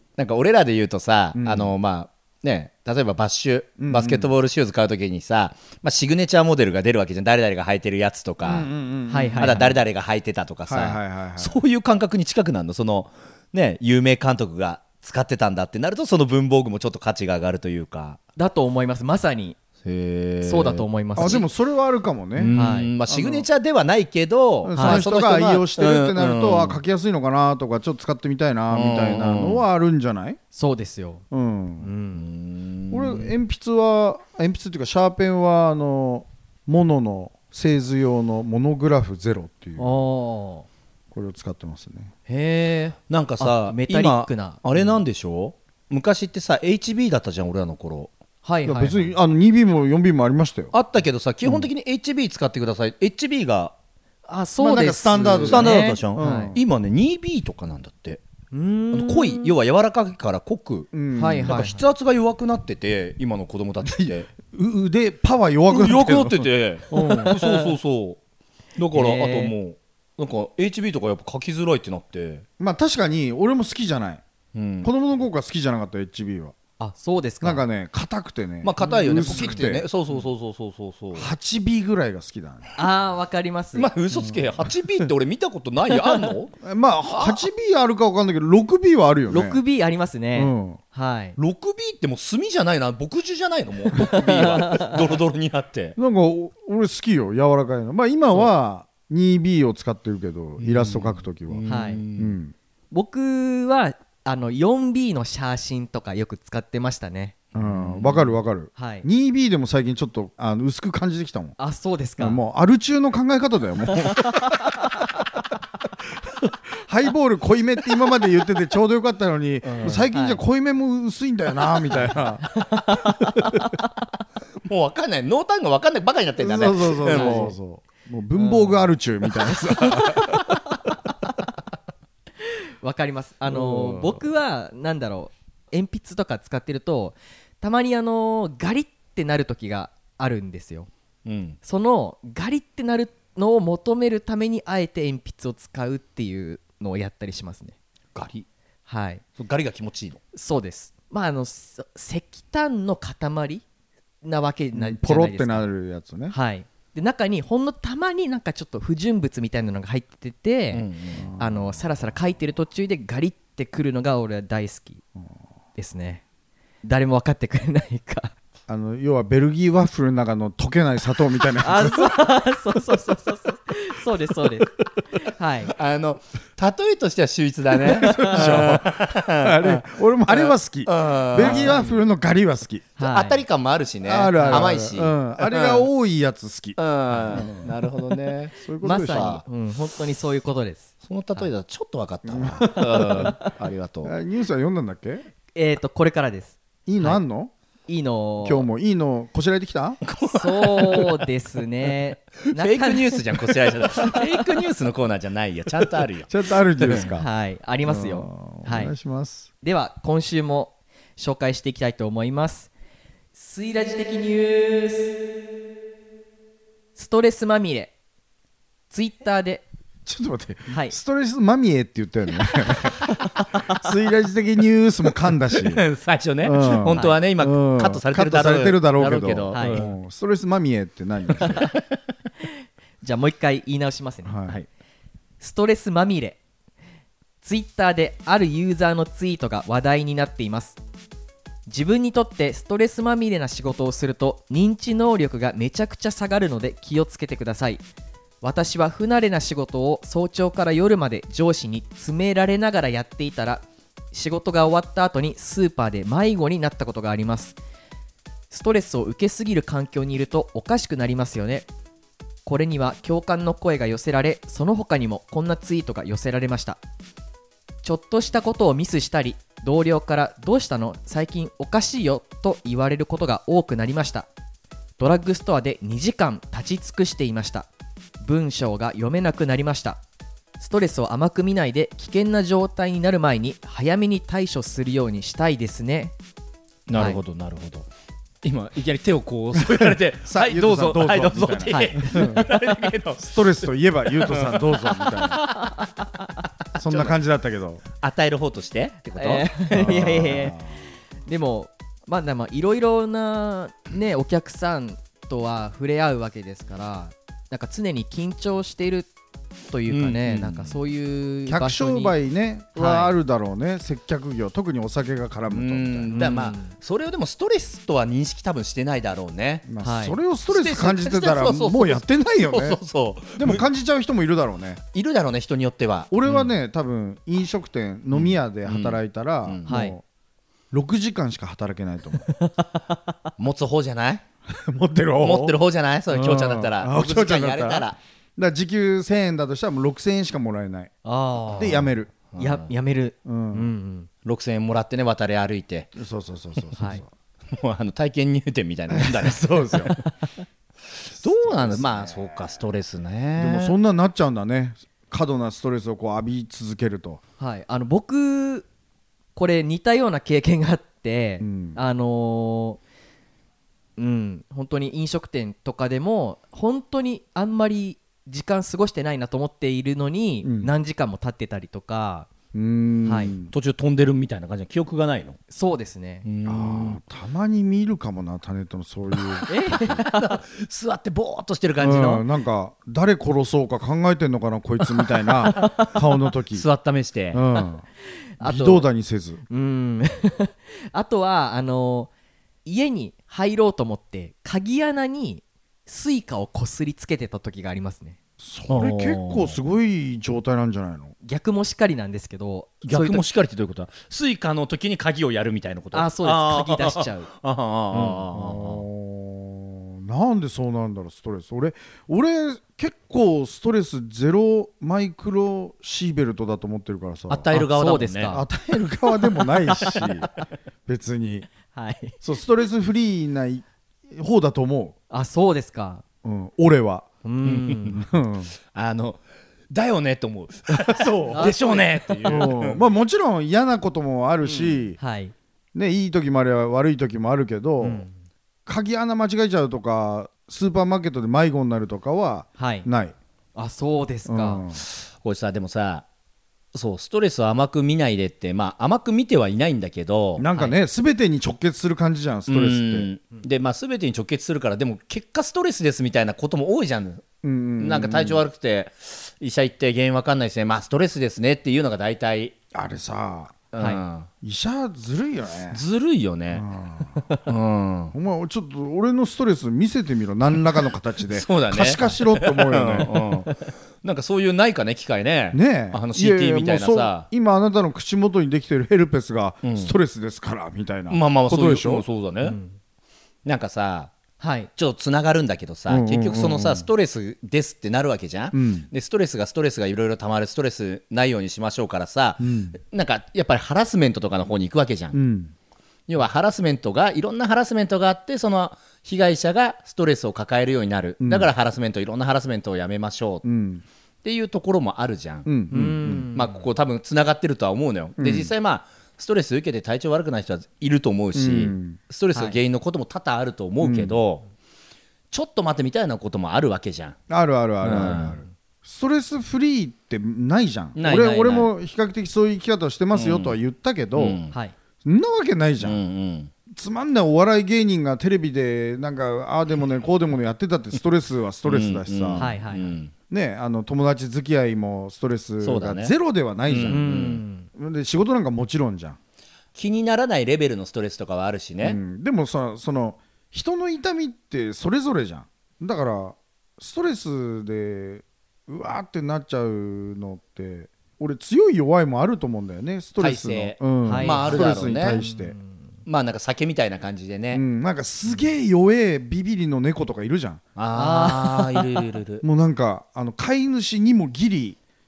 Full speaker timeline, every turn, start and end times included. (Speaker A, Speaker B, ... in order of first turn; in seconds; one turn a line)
Speaker A: 0.2-8.7
Speaker B: 1.4-1.7
Speaker B: 3.8-4.3
Speaker B: 8.4-9.8
Speaker C: 9.1-9.7
Speaker A: 9.4-18.2
Speaker B: 10.7-11.6
Speaker C: 18.4-19.6
Speaker A: 19.8-21.4
Speaker C: 20.4-21.5
Speaker B: 21.2-22.5
Speaker A: 22.4-26.8
Speaker C: 22.5-22.9
Speaker B: 23.1-23.5
Speaker B: 24.6-30.4
Speaker C: 24.8-25.0
Speaker A: 28.7-29.6
Speaker C: 30.6-31.2
Speaker B: 31.3-31.9
Speaker C: 31.8-32.3
Speaker A: 32.2-33.3
Speaker B: 32.9-40.0
Speaker C: 39.8-40.7
Speaker B: 41.1-42.1
Speaker C: 42.3-44.6
Speaker A: 43.1-48.1
Speaker C: 48.4-49.1
Speaker B: 48.6-50.7
Speaker A: 50.7-53.7
Speaker B: 51.4-51.7
Speaker C: 54.3-56.5
Speaker B: 54.6-56.6
Speaker A: 55.5-58.2
Speaker C: 58.5-59.5
Speaker A: 58.9-60.9
Speaker B: 60.9-61.7
Speaker C: 61.1-61.8
Speaker A: 61.5-64.3
Speaker B: 63.9-67.3
Speaker A: 65.7-68.2
Speaker C: 66.9-67.7
Speaker A: 68.8-72.5
Speaker C: 68.9-69.5
Speaker B: 72.6-74.2
Speaker A: 74.5-74.9
Speaker B: 74.8-76.5
Speaker C: 76.8-77.6
Speaker B: 77.4-79.9
Speaker A: 78.6-81.3
Speaker C: 78.8-79.6
Speaker B: 81.1-82.7
Speaker C: 82.8-83.9
Speaker A: 83.8-86.5
Speaker B: 84.1-85.1
Speaker B: 86.6-89.6
Speaker A: 87.1-87.4
Speaker C: 89.3-91.4
Speaker B: 90.3-90.8
Speaker A: 91.4-96.0
Speaker C: 94.2-94.9
Speaker B: 96.0-101.7
Speaker A: 100.6-102.4
Speaker C: 101.7-102.0
Speaker B: 102.2-102.5
Speaker C: 102.9-107.3
Speaker A: 107.5-108.4
Speaker B: 107.5-111.6
Speaker C: 108.8-109.1
Speaker C: 111.6-112.4
Speaker B: 112.2-114.7
Speaker B: 116.0-122.5
Speaker A: 119.6-120.1
Speaker C: 120.1-120.4
Speaker C: 122.5-123.5
Speaker A: 124.7-127.5
Speaker B: 126.4-130.4
Speaker C: 127.1-127.5
Speaker C: 128.3-128.8
Speaker C: 129.8-130.7
Speaker C: 132.5-140.9
Speaker B: 133.6-134.0
Speaker A: 141.2-141.6
Speaker C: 141.6-147.8
Speaker A: 148.2-148.5
Speaker C: 148.9-149.2
Speaker A: 149.4-150.2
Speaker C: 150.3-153.6
Speaker C: 154.2-155.7
Speaker B: 154.7-156.3
Speaker C: 156.3-160.8
Speaker A: 160.7-161.2
Speaker B: 161.2-161.8
Speaker C: 161.4-165.0
Speaker C: 165.8-166.2
Speaker C: 166.8-168.3
Speaker B: 168.7-172.2
Speaker C: 171.6-175.7
Speaker A: 175.7-181.9
Speaker B: 177.8-182.9
Speaker C: 178.0-178.4
Speaker C: 181.4-181.9
Speaker C: 183.0-183.4
Speaker A: 183.0-185.9
Speaker B: 184.0-186.8
Speaker C: 184.4-184.7
Speaker A: 186.8-189.4
Speaker C: 187.1-187.4
Speaker B: 187.3-187.7
Speaker B: 188.6-189.4
Speaker C: 188.8-191.5
Speaker A: 191.0-194.1
Speaker B: 192.2-193.4
Speaker C: 192.7-193.5
Speaker B: 194.0-195.3
Speaker C: 195.5-197.2
Speaker B: 196.9-197.5
Speaker C: 197.9-198.7
Speaker B: 198.4-200.0
Speaker A: 200.1-201.2
Speaker C: 200.2-204.2
Speaker A: 202.5-207.1
Speaker B: 206.3-207.3
Speaker C: 207.1-208.9
Speaker B: 207.8-209.5
Speaker C: 209.6-212.7
Speaker C: 213.3-215.1
Speaker C: 217.0-217.9
Speaker C: 218.9-219.7
Speaker B: 220.1-225.8
Speaker C: 220.7-221.0
Speaker A: 225.5-229.9
Speaker B: 226.4-231.7
Speaker C: 226.9-227.2
Speaker C: 229.5-229.9
Speaker A: 231.3-231.7
Speaker C: 233.0-234.5
Speaker B: 234.2-234.6
Speaker C: 235.4-236.4
Speaker C: 237.4-240.8
Speaker C: 241.7-247.8
Speaker C: 248.4-257.6
Speaker C: 258.5-261.7
Speaker C: 262.4-266.8
Speaker C: 267.8-274.3
Speaker C: 275.0-277.7
Speaker C: 278.2-280.0
Speaker C: 280.6-286.1
Speaker A: 286.9-287.9
Speaker A: 288.4-293.5
Speaker B: 289.6-292.4
Speaker C: 291.7-292.5
Speaker B: 293.2-295.4
Speaker A: 294.1-295.9
Speaker C: 295.6-295.9
Speaker A: 296.8-297.1
Speaker B: 296.8-297.8
Speaker A: 298.0-300.2
Speaker C: 299.2-300.6
Speaker B: 299.7-300.8
Speaker C: 301.3-309.1
Speaker C: 309.7-312.2
Speaker A: 309.9-310.8
Speaker B: 311.5-316.1
Speaker C: 312.8-313.1
Speaker A: 315.5-319.7
Speaker C: 316.1-316.7
Speaker B: 319.7-322.8
Speaker C: 319.8-320.2
Speaker A: 320.5-323.6
Speaker B: 323.4-324.8
Speaker A: 324.9-326.5
Speaker B: 326.1-330.0
Speaker A: 328.1-329.6
Speaker C: 329.7-329.9
Speaker B: 330.7-332.3
Speaker C: 332.3-332.7
Speaker A: 333.4-334.2
Speaker B: 334.5-335.6
Speaker A: 335.2-338.0
Speaker B: 336.1-340.9
Speaker C: 341.0-344.1
Speaker B: 341.6-342.1
Speaker A: 342.3-342.7
Speaker B: 343.2-343.7
Speaker A: 344.2-345.9
Speaker B: 346.0-347.1
Speaker C: 346.8-347.0
Speaker A: 347.5-350.0
Speaker B: 348.9-349.9
Speaker A: 351.0-353.7
Speaker B: 351.2-352.5
Speaker B: 353.4-357.2
Speaker C: 357.4-358.7
Speaker C: 359.4-362.8
Speaker B: 361.4-361.8
Speaker C: 364.0-372.3
Speaker B: 370.4-370.7
Speaker B: 372.5-373.5
Speaker C: 373.1-373.3
Speaker A: 373.5-375.4
Speaker C: 375.5-376.2
Speaker A: 376.2-377.0
Speaker B: 376.4-380.0
Speaker A: 379.2-382.2
Speaker C: 379.5-380.0
Speaker B: 381.8-386.7
Speaker C: 385.6-385.9
Speaker A: 386.5-387.4
Speaker B: 387.3-387.9
Speaker B: 388.4-389.4
Speaker A: 388.4-388.8
Speaker C: 389.5-392.1
Speaker C: 392.6-398.2
Speaker B: 398.4-401.1
Speaker A: 398.7-399.6
Speaker C: 401.2-403.2
Speaker A: 402.8-408.8
Speaker C: 405.9-407.3
Speaker C: 407.9-408.2
Speaker B: 408.3-417.5
Speaker A: 417.3-418.4
Speaker C: 417.5-418.4
Speaker B: 418.3-420.3
Speaker B: 420.9-421.5
Speaker C: 421.7-422.2
Speaker B: 422.2-425.0
Speaker C: 425.1-426.0
Speaker B: 426.2-427.1
Speaker C: 427.2-428.0
Speaker A: 427.4-428.0
Speaker B: 428.0-428.5
Speaker A: 428.7-432.8
Speaker B: 430.7-435.0
Speaker C: 431.3-432.5
Speaker A: 434.4-434.8
Speaker C: 435.0-435.3
Speaker B: 435.7-438.1
Speaker C: 437.8-438.1
Speaker B: 438.7-443.1
Speaker C: 442.6-442.9
Speaker C: 443.6-444.6
Speaker B: 444.3-444.8
Speaker A: 444.9-446.1
Speaker A: 446.7-450.5
Speaker B: 450.4-453.1
Speaker A: 452.5-457.3
Speaker B: 457.4-458.4
Speaker A: 457.8-462.5
Speaker B: 462.7-463.6
Speaker A: 463.7-464.3
Speaker B: 464.4-465.8
Speaker A: 465.7-466.6
Speaker B: 466.5-467.2
Speaker A: 467.4-468.1
Speaker B: 468.1-473.1
Speaker A: 471.3-477.3
Speaker B: 475.5-482.1
Speaker A: 479.6-479.9
Speaker A: 481.1-482.6
Speaker C: 482.4-482.8
Speaker A: 483.4-484.1
Speaker C: 484.4-484.7
Speaker A: 484.8-495.2
Speaker B: 485.9-486.9
Speaker B: 488.5-488.9
Speaker B: 492.4-492.8
Speaker B: 495.1-495.5
Speaker A: 496.1-503.4
Speaker B: 501.2-501.5
Speaker B: 503.4-503.8
Speaker A: 504.2-505.5
Speaker B: 505.4-506.3
Speaker C: 505.7-506.6
Speaker A: 506.3-514.5
Speaker B: 508.2-508.5
Speaker B: 511.4-512.0
Speaker B: 513.8-514.2
Speaker A: 515.3-517.2
Speaker B: 517.3-524.4
Speaker A: 517.8-518.4
Speaker A: 521.0-521.7
Speaker A: 523.1-523.6
Speaker A: 524.1-524.5
Speaker B: 525.0-526.0
Speaker A: 525.8-526.5
Speaker B: 526.7-532.5
Speaker A: 531.6-533.1
Speaker C: 532.4-533.0
Speaker B: 533.3-539.2
Speaker A: 535.6-536.1
Speaker A: 536.7-537.4
Speaker C: 536.9-537.7
Speaker A: 539.8-542.0
Speaker B: 541.8-555.6
Speaker A: 553.2-555.2
Speaker C: 554.0-555.9
Speaker A: 556.1-557.6
Speaker B: 557.5-560.6
Speaker A: 560.8-562.4
Speaker C: 560.9-562.0
Speaker B: 562.4-564.8